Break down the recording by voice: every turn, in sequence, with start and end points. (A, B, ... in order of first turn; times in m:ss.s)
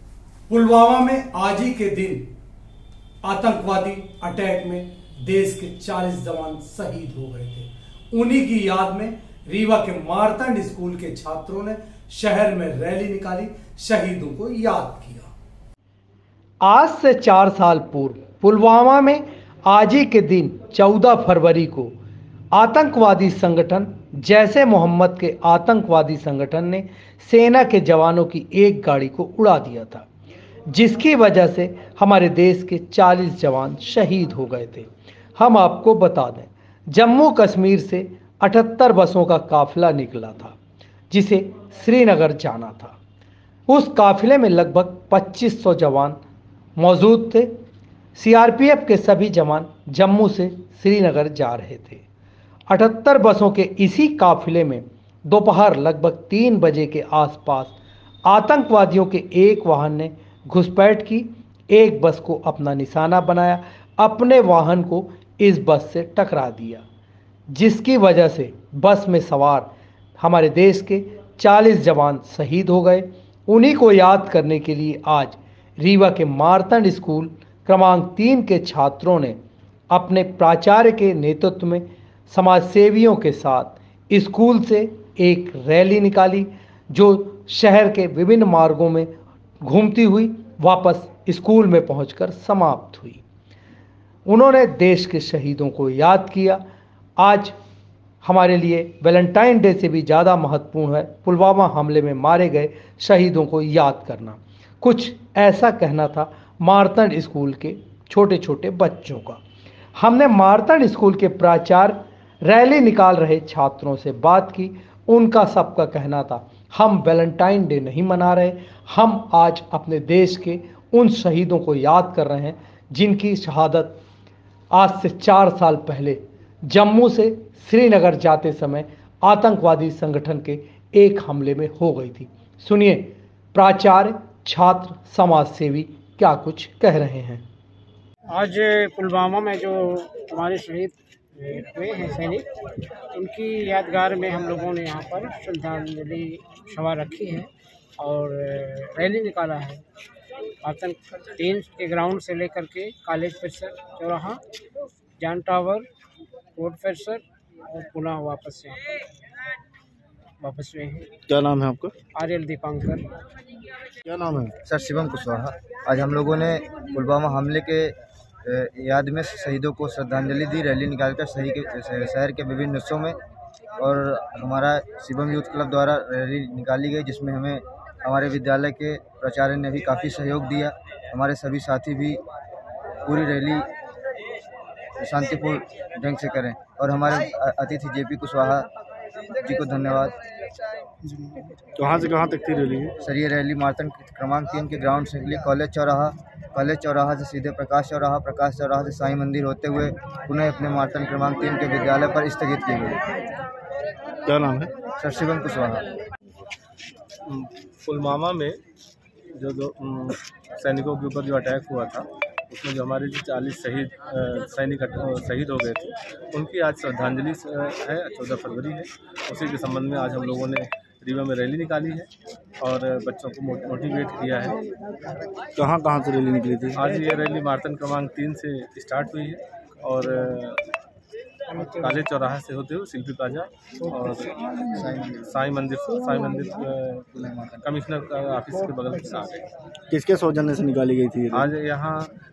0:00.5-0:02.3 A
0:03.2-0:15.3 A
0:16.6-0:21.9 A
0:22.5-0:30.1 A
0:30.7-0:40.6 A
0:41.1-0:43.0 A
0:43.7-0:46.2 A
0:46.8-0:47.5 A
0:48.2-0:52.0 A
0:52.7-1:06.8 A
1:07.5-1:19.4 A
1:19.9-1:29.1 A
1:29.6-1:33.2 A
1:34.3-1:36.6 A
1:37.2-1:37.6 A
1:38.2-1:49.4 A
1:50.0-2:04.0 A
2:04.7-2:17.4 A
2:18.3-2:22.4 B
2:23.1-2:29.8 B
2:30.6-2:34.4 B
2:35.2-2:35.9 B
2:36.6-2:39.0 B
2:40.4-2:41.1 B
2:41.3-2:41.9 C
2:42.1-2:43.1 B
2:44.0-2:44.5 C
2:44.6-2:53.2 D
2:53.8-3:02.2 D
3:03.0-3:03.7 D
3:05.0-3:08.7 D
3:09.4-3:10.2 D
3:11.8-3:12.9 C
3:13.0-3:23.0 D
3:24.2-3:24.7 C
3:25.0-3:25.9 D
3:27.2-3:28.5 E
3:29.3-3:42.1 E
3:42.6-3:44.6 E
3:45.6-3:46.8 C
3:46.7-3:50.6 E
3:51.5-3:54.3 E
3:54.7-3:55.3 D
3:55.2-3:59.5 E
3:57.2-3:57.6 D
3:59.9-4:01.5 C
4:01.3-4:02.1 E